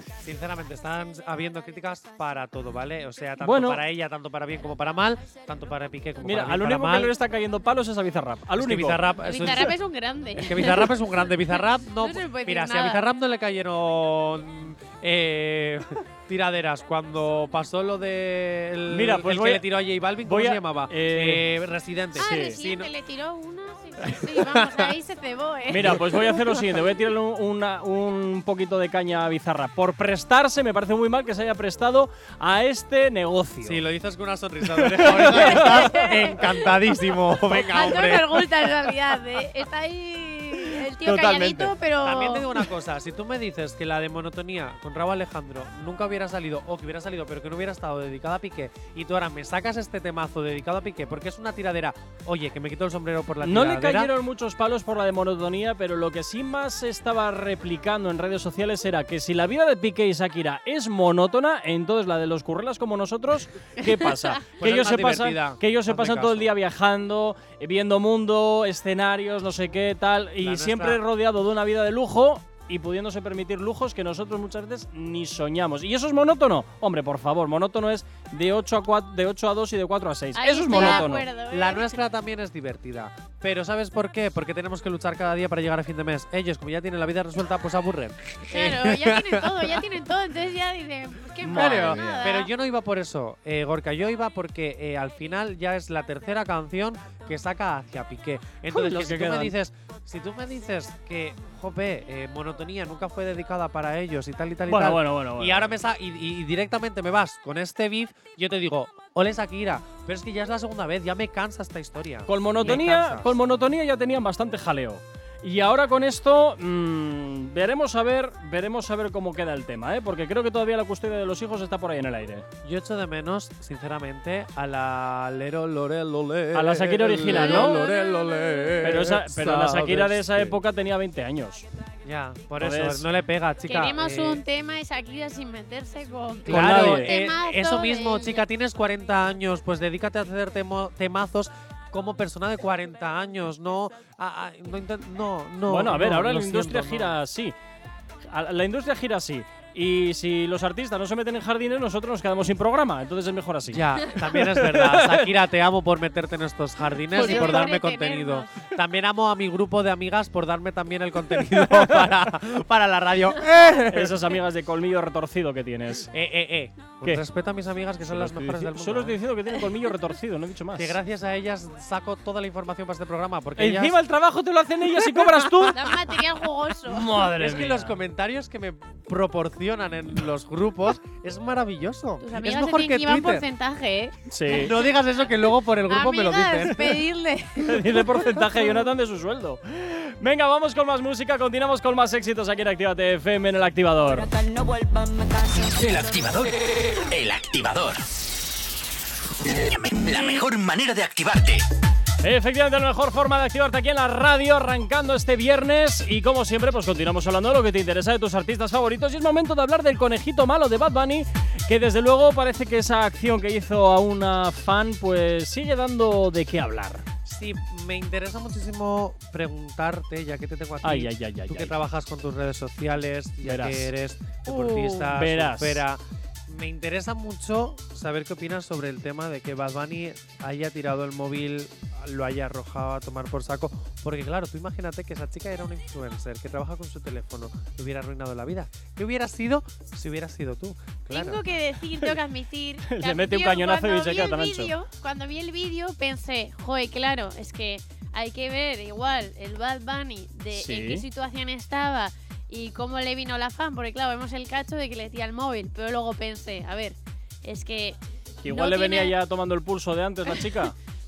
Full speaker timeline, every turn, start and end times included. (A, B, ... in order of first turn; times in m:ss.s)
0:00.2-0:07.1 A
0:03.4-0:03.8 B
0:06.2-0:09.0 B
0:08.6-0:09.8 A
0:09.2-0:13.0 C
0:10.4-0:22.9 A
0:18.9-0:19.7 B
0:20.2-0:21.5 B
0:22.2-0:26.0 C
0:22.2-0:22.6 B
0:24.2-0:24.9 A
0:25.7-0:33.8 B
0:25.8-0:26.5 A
0:33.6-0:38.8 A
0:34.8-0:35.7 B
0:35.1-0:36.6 C
0:37.6-0:42.5 C
0:41.0-0:41.7 B
0:42.0-0:54.1 A
0:53.4-1:21.2 B
1:03.8-1:04.3 C
1:04.6-1:06.5 A
1:10.4-1:11.0 A
1:20.4-1:22.0 C
1:20.7-1:30.0 A
1:28.5-1:32.5 C
1:31.4-1:32.4 B
1:31.5-1:53.3 A
1:38.7-1:39.6 B
1:44.7-1:45.7 B
1:52.3-2:02.5 B
2:02.6-2:10.6 A
2:06.5-2:07.9 B
2:07.3-2:08.8 C
2:08.8-2:11.6 B
2:12.0-2:14.4 A
2:12.6-2:13.1 B
2:13.7-2:18.5 C
2:16.5-2:27.2 A
2:16.5-2:17.1 B
2:25.7-2:27.6 B
2:28.2-2:35.3 B
2:33.7-2:44.3 A
2:37.1-2:38.6 C
2:37.2-2:37.7 B
2:41.6-2:41.9 B
2:43.9-2:46.1 B
2:46.1-2:49.2 A
2:48.1-2:51.0 B
2:50.8-2:54.0 A
2:53.6-2:55.8 B
2:55.2-2:56.1 A
2:55.7-2:57.0 C
2:56.9-2:58.0 B
2:57.0-3:03.5 A
3:02.2-3:04.2 C
3:04.3-3:04.7 B
3:04.5-3:06.9 A
3:05.9-3:07.8 C
3:07.6-3:14.3 B
3:14.1-3:16.4 D
3:15.8-3:18.0 E
3:19.4-3:21.6 E
3:20.1-3:20.4 D
3:22.2-3:37.1 B
3:37.2-4:01.4 A
3:40.8-3:41.8 B
3:43.4-3:43.9 B
3:44.5-3:45.8 B
4:01.1-4:19.2 C
4:02.9-4:04.7 B
4:10.5-4:11.0 B
4:18.4-4:20.7 B
4:20.3-4:20.6 C